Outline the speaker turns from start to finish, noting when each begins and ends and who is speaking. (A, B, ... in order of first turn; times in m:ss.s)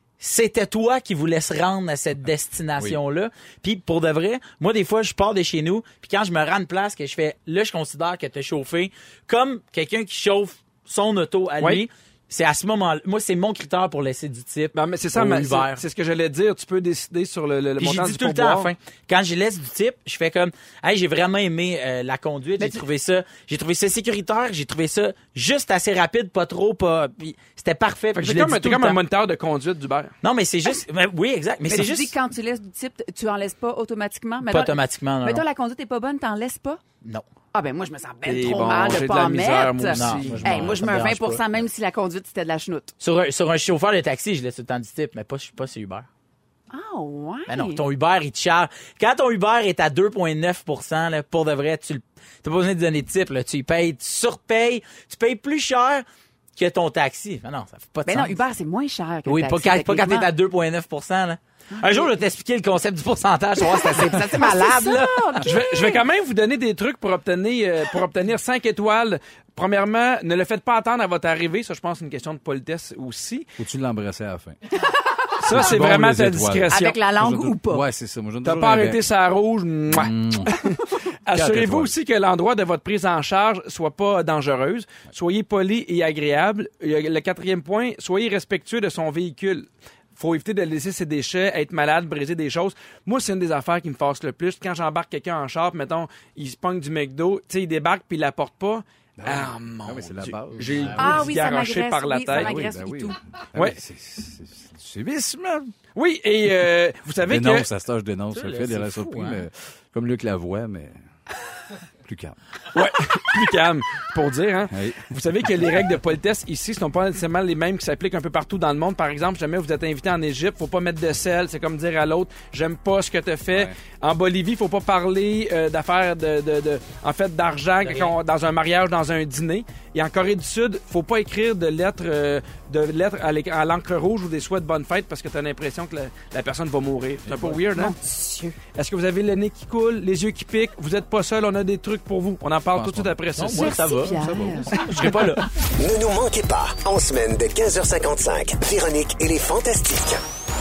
0:00.2-0:15.8 A
0:14.7-0:18.7 B
0:17.8-0:29.0 A
0:28.2-0:30.2 B
0:30.2-0:32.1 A
0:31.7-0:36.8 C
0:34.5-0:35.4 A
0:37.5-0:43.0 C
0:38.2-0:40.6 B
0:39.9-0:41.4 A
0:40.1-0:41.0 D
0:43.0-0:46.1 A
0:46.7-0:47.8 C
0:47.5-0:56.0 A
0:56.6-0:58.4 A
0:58.1-1:00.3 C
0:59.2-1:05.4 A
1:01.7-1:02.1 C
1:03.6-1:06.0 C
1:05.4-1:13.5 B
1:13.6-1:14.6 D
1:15.4-1:17.0 B
1:15.4-1:19.1 D
1:16.7-1:17.8 C
1:18.4-1:42.6 B
1:19.9-1:20.6 D
1:21.3-1:21.9 D
1:39.2-1:41.3 D
1:40.7-1:41.0 A
1:41.0-1:43.2 C
1:42.3-1:45.8 D
1:46.0-1:47.7 B
1:47.2-1:51.0 D
1:48.3-1:49.4 A
1:52.0-1:52.4 D
1:52.7-2:18.0 B
1:54.7-1:55.1 D
2:03.5-2:03.8 D
2:07.8-2:08.1 A
2:17.3-2:17.6 D
2:17.7-2:18.6 C
2:18.8-2:23.8 B
2:22.7-2:23.3 D
2:23.4-2:25.5 A
2:23.5-2:24.7 C
2:24.0-2:24.8 D
2:25.0-2:25.3 B
2:25.8-2:30.2 E